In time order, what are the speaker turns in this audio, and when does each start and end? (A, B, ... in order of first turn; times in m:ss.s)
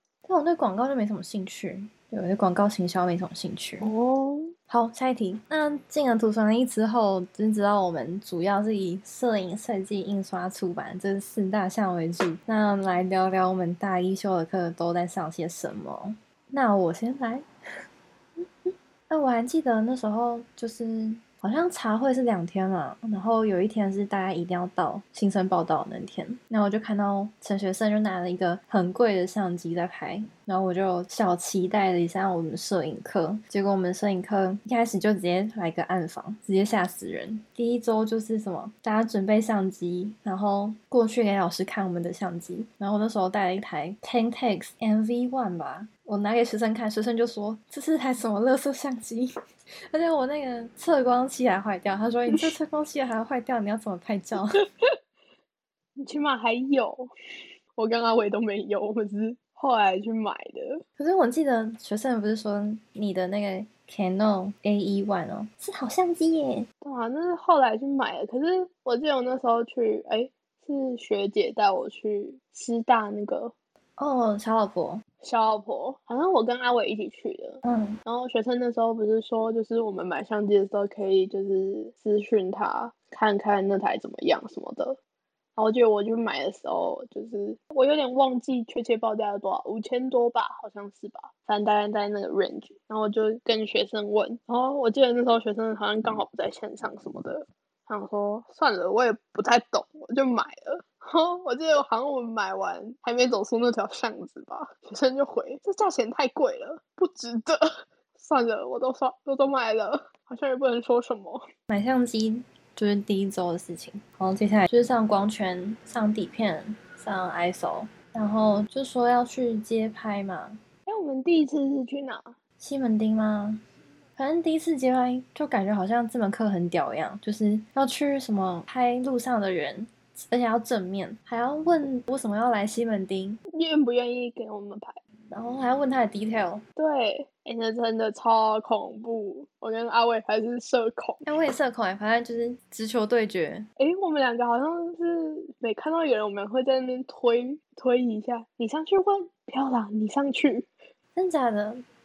0:00.2-0:03.9 A
0:03.8-0:04.5 B
0:04.7-0:17.4 A
0:18.4-0:49.3 A
0:49.9-0:54.6 A
0:56.0-0:57.1 B
0:57.8-1:00.8 B
1:01.0-1:06.7 A
1:06.8-1:13.5 B
1:14.0-1:15.0 A
1:15.2-1:25.0 B
1:17.6-1:18.0 A
1:25.6-1:51.4 B
1:51.7-2:00.6 A
2:00.9-2:02.3 B
2:02.6-2:03.6 A
2:04.2-2:13.4 A
2:13.5-2:15.0 B
2:15.3-2:16.6 A
2:16.8-2:21.2 B
2:21.2-2:23.7 A
2:23.8-2:30.7 B
2:31.2-2:31.8 A